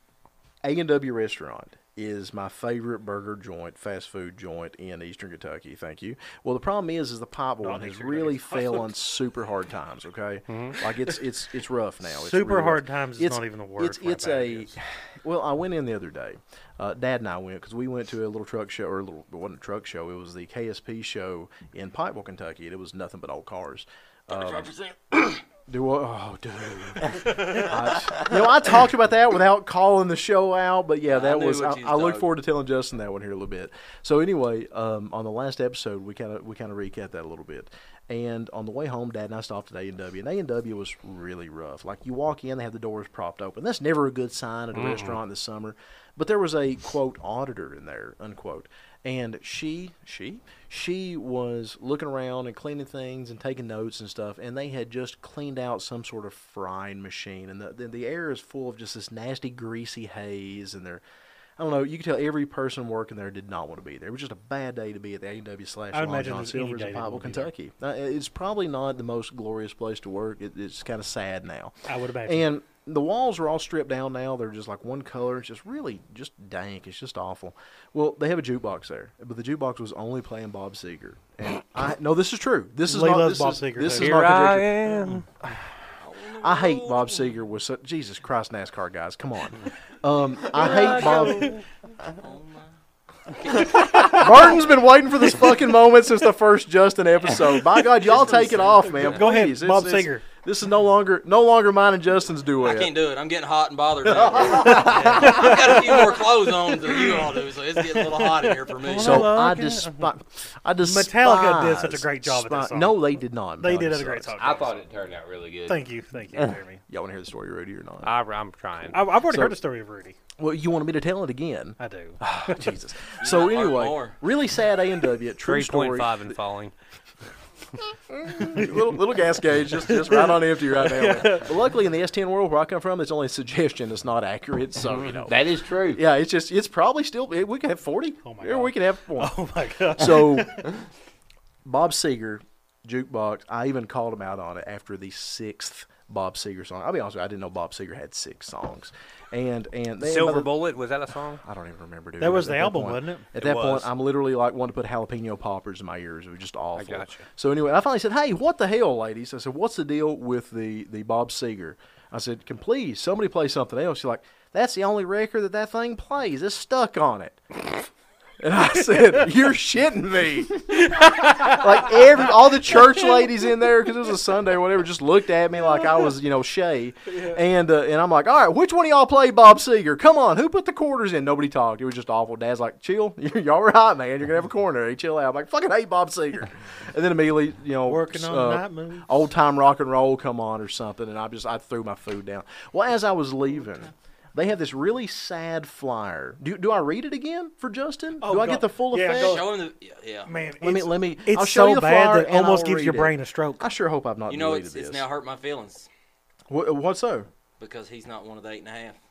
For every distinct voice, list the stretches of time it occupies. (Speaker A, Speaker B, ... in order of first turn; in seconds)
Speaker A: 0.6-24.7, 25.2-61.0, 61.6-85.7, 86.4-91.6, 94.0-102.9, 104.0-105.8, 109.0-114.3, 116.9-118.1, 119.3-119.5, 120.4-126.3, 128.1-135.4, 135.9-139.4, 139.9-140.7, 141.6-150.5, 151.4-167.9, 168.4-199.4, 200.6-205.1, 206.5-207.3
Speaker B: 7.6-8.9, 12.1-14.8, 65.9-67.5, 71.9-72.5, 82.9-84.2, 91.1-91.5, 98.3-100.2, 104.8-105.7, 107.9-108.6, 110.8-113.0, 113.6-114.8, 115.7-116.8, 118.9-120.2, 121.8-122.2, 128.4-128.9, 129.9-131.5, 138.2-140.6, 152.2-153.2, 170.8-171.6, 177.1-177.4, 187.8-189.1, 198.2-199.6, 200.2-203.7
Speaker C: 10.5-10.8, 44.7-45.2, 83.9-85.2, 90.5-91.6, 108.8-110.0, 118.0-119.0, 125.4-126.7, 150.0-151.4, 153.4-153.9, 156.7-157.2
Speaker D: 24.3-25.3, 31.1-32.3, 86.0-87.3, 92.1-92.7, 93.3-94.3, 98.0-98.8, 102.6-109.4, 123.2-124.2, 199.2-200.3, 204.3-205.9, 207.6-209.0
Speaker E: 104.7-105.0, 114.3-115.8, 135.1-136.0